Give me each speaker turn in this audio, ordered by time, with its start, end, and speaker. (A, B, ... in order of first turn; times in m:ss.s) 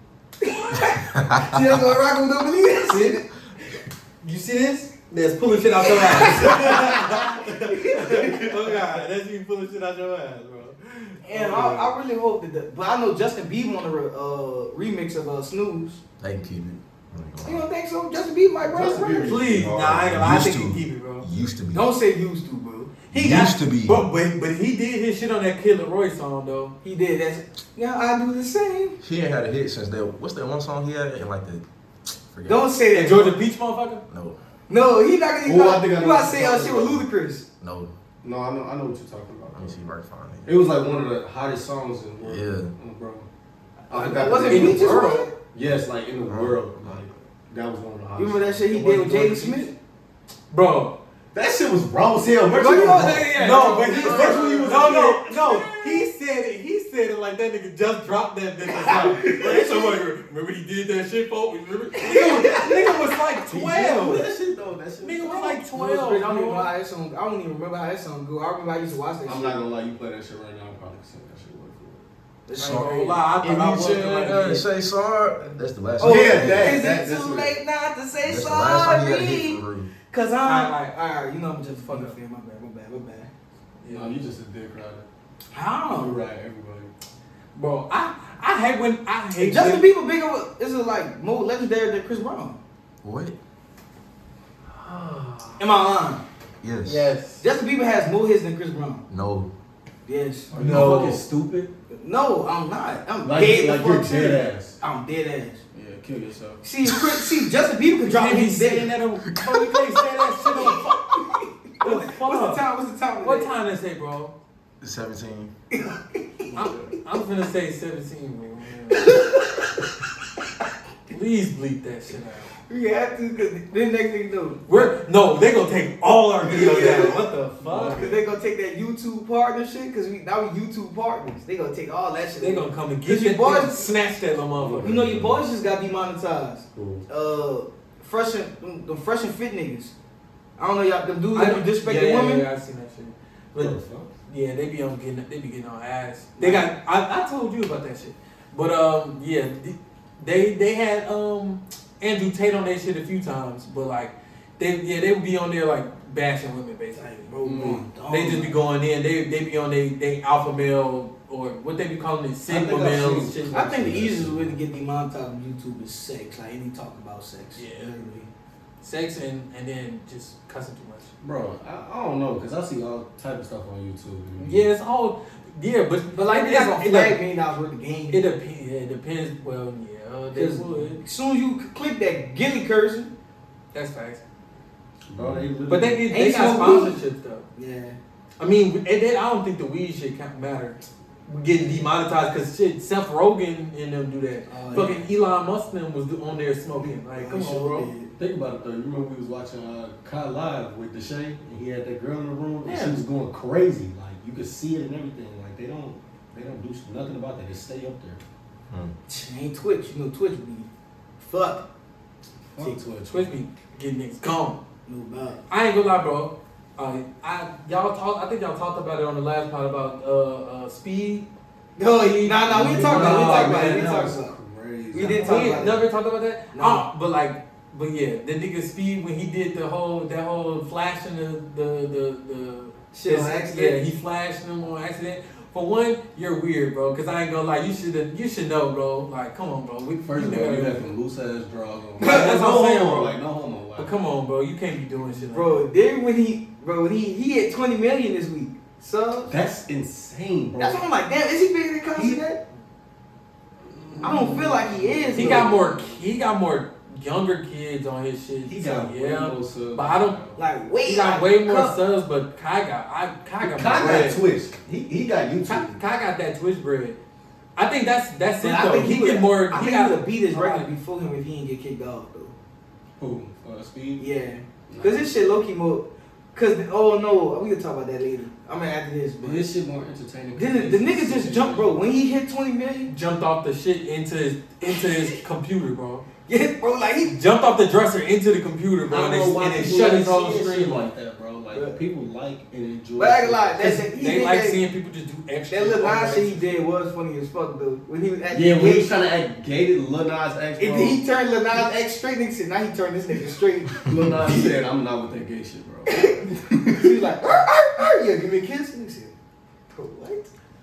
0:00.4-0:03.2 A
0:01.1-0:01.4 B
0:02.9-0:03.2 C
0:04.2-0:11.9 C
0:05.8-0:08.8 A
0:11.2-0:16.0 A
0:16.2-0:17.6 B
0:17.4-0:19.4 A
0:18.6-0:20.2 D
0:19.2-0:21.2 C
0:19.9-0:21.9 B
0:21.7-0:22.9 A
0:23.1-0:26.7 C
0:23.1-0:24.0 B
0:26.8-0:29.0 A
0:29.0-0:31.6 B
0:32.3-0:32.7 B
0:32.4-0:33.4 A
0:32.9-0:34.0 C
0:34.1-0:34.4 B
0:34.7-0:37.4 A
0:35.4-0:37.0 D
0:37.6-0:37.9 B
0:38.2-0:39.8 D
0:39.5-0:40.5 B
0:40.4-0:43.3 D
0:42.2-0:42.7 B
0:43.9-0:48.6 D
0:43.9-0:45.3 A
0:44.4-0:45.3 C
0:46.3-0:47.0 B
0:48.2-0:49.7 A
0:48.7-0:49.7 C
0:50.5-0:51.0 C
0:51.3-0:55.6 D
0:52.5-0:55.9 A
0:52.9-1:04.2 C
0:58.6-1:00.0 A
1:01.9-1:02.6 A
1:03.5-1:05.6 D
1:05.0-1:06.7 C
1:05.7-1:09.6 A
1:09.2-1:12.0 D
1:12.4-1:12.9 A
1:12.5-1:16.8 B
1:12.6-1:14.6 C
1:16.0-1:17.6 D
1:16.0-1:23.3 A
1:18.2-1:19.9 B
1:20.4-1:20.9 C
1:21.6-1:22.1 C
1:23.8-1:24.2 C
1:23.9-1:25.1 D
1:25.5-1:26.2 A
1:25.9-1:26.9 D
1:27.5-1:29.8 C
1:29.4-1:32.6 A
1:33.0-1:33.4 B
1:34.7-1:35.6 C
1:35.6-1:36.2 A
1:36.6-1:37.1 B
1:36.8-1:37.4 C
1:37.4-1:39.0 A
1:39.1-1:39.5 B
1:40.0-1:40.5 A
1:40.5-1:41.7 D
1:40.5-1:41.2 C
1:41.9-1:45.6 A
1:43.2-1:44.8 D
1:45.7-1:46.6 D
1:46.6-1:48.9 A
1:46.8-1:47.4 B
1:48.1-1:50.9 C
1:49.3-1:49.8 B
1:50.4-1:53.6 A
1:51.8-1:52.6 C
1:53.2-1:54.3 C
1:54.8-1:55.5 B
1:55.7-1:56.8 A
1:56.5-1:59.2 C
1:59.0-1:59.8 A
2:01.1-2:02.5 C
2:02.7-2:04.6 A
2:04.7-2:08.0 C
2:06.4-2:07.2 A
2:07.6-2:08.2 D
2:07.9-2:13.9 A
2:12.4-2:14.9 C
2:14.6-2:15.4 D
2:14.8-2:19.9 A
2:16.8-2:17.0 D
2:20.6-2:22.4 A
2:21.3-2:23.8 C
2:23.6-2:24.1 D
2:24.3-2:37.2 C
2:26.4-2:26.7 A
2:36.9-2:38.5 A
2:37.4-2:37.8 D
2:38.1-2:43.6 C
2:42.5-2:44.6 D
2:43.5-2:48.3 A
2:47.5-2:48.0 C
2:48.8-2:51.1 C
2:51.2-2:54.7 D
2:54.4-2:57.2 C
2:56.1-2:58.2 A
2:58.1-3:01.0 C
3:00.3-3:03.1 A
3:03.7-3:04.2 C
3:05.1-3:06.0 D
3:05.2-3:05.5 B
3:05.7-3:07.5 C
3:06.1-3:07.0 A
3:07.6-3:08.0 A
3:08.4-3:17.9 C
3:14.5-3:15.0 A
3:16.8-3:18.1 A
3:18.2-3:28.2 D
3:22.6-3:23.0 A
3:29.1-3:30.7 A
3:31.2-3:31.6 A
3:32.5-3:33.3 D
3:32.6-3:34.6 C
3:34.8-3:35.4 A
3:35.5-3:41.3 C
3:41.8-3:44.3 A
3:42.0-3:44.1 C
3:42.5-3:45.6 D
3:44.9-3:45.9 A
3:45.1-4:00.9 C
3:46.5-3:46.9 A
3:52.9-3:53.9 A
4:00.0-4:03.9 D
4:02.0-4:02.4 A
4:02.0-4:03.2 C
4:03.7-4:05.6 C
4:05.2-4:09.3 A
4:09.2-4:10.8 D
4:10.6-4:12.4 A
4:13.7-4:16.0 D
4:14.0-4:15.5 A
4:15.1-4:20.2 C
4:18.4-4:20.4 D
4:20.4-4:21.8 A
4:20.8-4:24.2 C
4:23.4-4:25.8 D
4:25.4-4:27.0 C
4:27.6-4:30.7 C
4:28.4-4:32.3 A
4:33.0-4:34.0 D
4:34.0-4:39.4 A
4:34.7-4:35.1 D
4:39.2-4:41.7 D
4:40.3-4:42.9 A
4:42.9-4:46.0 C
4:44.6-4:45.2 A
4:46.3-4:47.1 A
4:47.0-4:50.9 C
4:48.8-4:53.7 D
4:53.0-4:54.6 A
4:53.6-4:56.6 C
4:55.5-4:58.9 A
4:58.3-5:01.0 D
5:00.6-5:04.4 A
5:03.8-5:06.9 D
5:05.8-5:09.1 A
5:09.7-5:10.3 A